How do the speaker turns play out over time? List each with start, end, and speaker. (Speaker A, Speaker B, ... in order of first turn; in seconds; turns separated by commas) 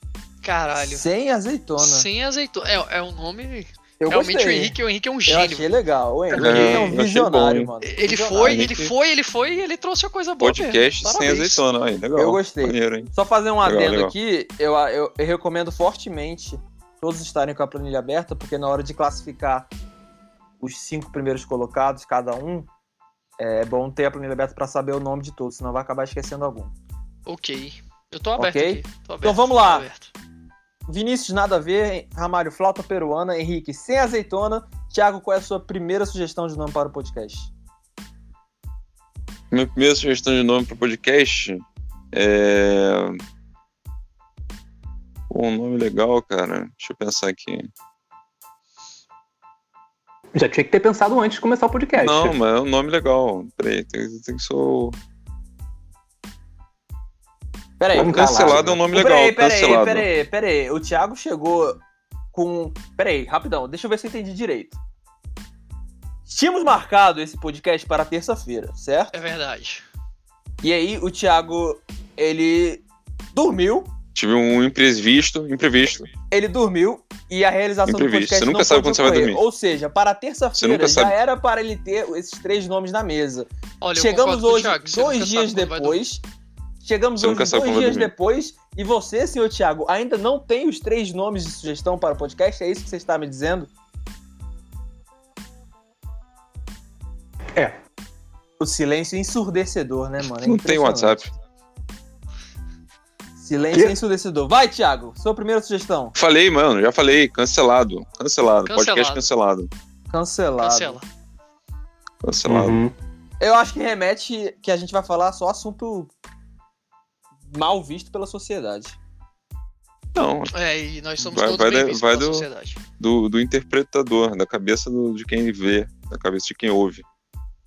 Speaker A: 0.4-1.1, Speaker B: 0.8-2.1, Speaker A: 1.8-5.7, Speaker B: 4.0-4.8, Speaker B: 5.3-8.7, Speaker A: 6.3-7.0, Speaker C: 6.3-7.7, Speaker A: 7.8-11.6, Speaker C: 8.4-8.9, Speaker C: 10.4-13.1, Speaker B: 12.2-19.7, Speaker C: 13.6-14.1, Speaker B: 20.6-22.7, Speaker B: 23.4-26.7, Speaker A: 27.3-30.1, Speaker B: 28.4-29.9, Speaker B: 30.9-37.5, Speaker C: 39.5-43.2, Speaker C: 45.3-47.7, Speaker D: 50.4-52.4, Speaker C: 52.0-55.0, Speaker B: 57.8-61.8, Speaker D: 57.9-58.8, Speaker C: 57.9-60.1, Speaker B: 62.3-64.8, Speaker B: 66.3-69.1, Speaker A: 69.1-69.8, Speaker B: 70.6-73.9, Speaker C: 74.1-76.1, Speaker B: 76.3-86.2, Speaker C: 77.9-79.4, Speaker C: 80.6-81.2, Speaker A: 83.8-86.0, Speaker B: 86.8-93.7, Speaker C: 87.2-88.1, Speaker B: 98.6-101.2, Speaker C: 100.2-101.3, Speaker B: 103.4-106.2, Speaker C: 106.2-109.7, Speaker A: 108.7-109.3, Speaker B: 110.1-111.0, Speaker A: 110.6-111.0, Speaker C: 112.2-112.8, Speaker D: 112.5-112.9, Speaker B: 113.4-116.1, Speaker B: 117.5-119.0, Speaker C: 120.2-120.5, Speaker A: 120.5-122.8, Speaker C: 121.2-122.5, Speaker C: 123.0-127.0